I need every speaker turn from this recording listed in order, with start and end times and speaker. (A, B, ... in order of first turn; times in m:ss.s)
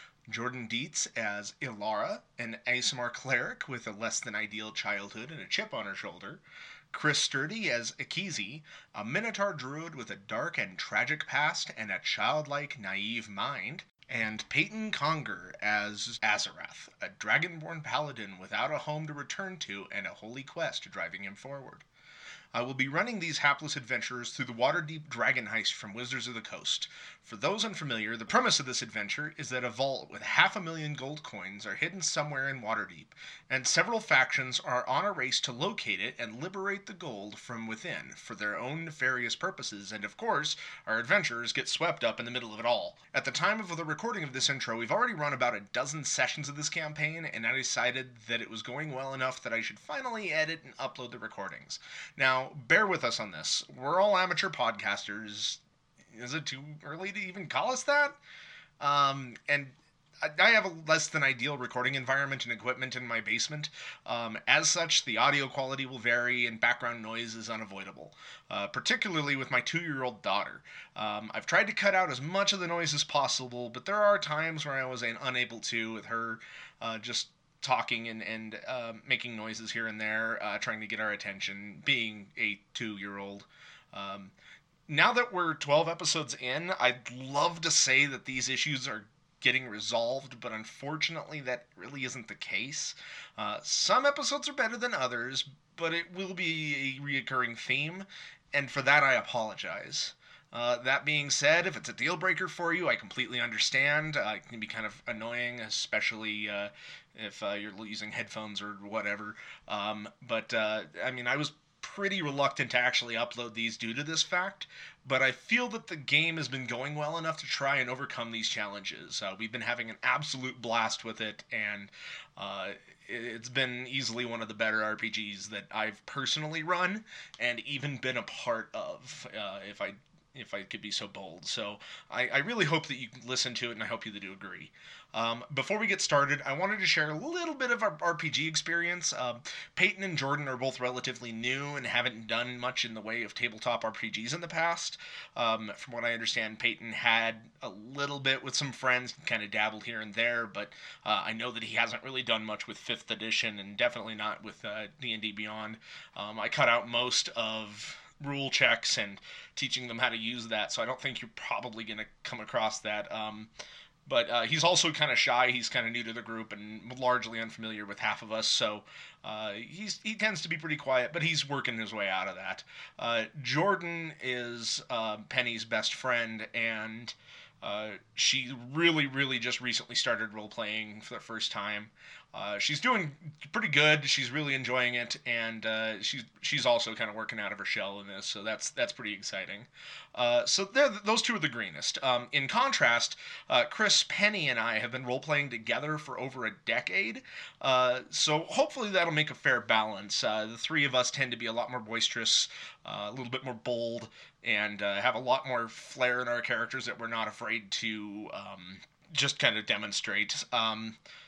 0:00.3-0:21.8 A
0:22.5-0:55.6 A
0:56.1-0:58.2 A
0:58.8-1:24.3 A
1:24.9-2:43.5 A
2:44.1-3:31.0 A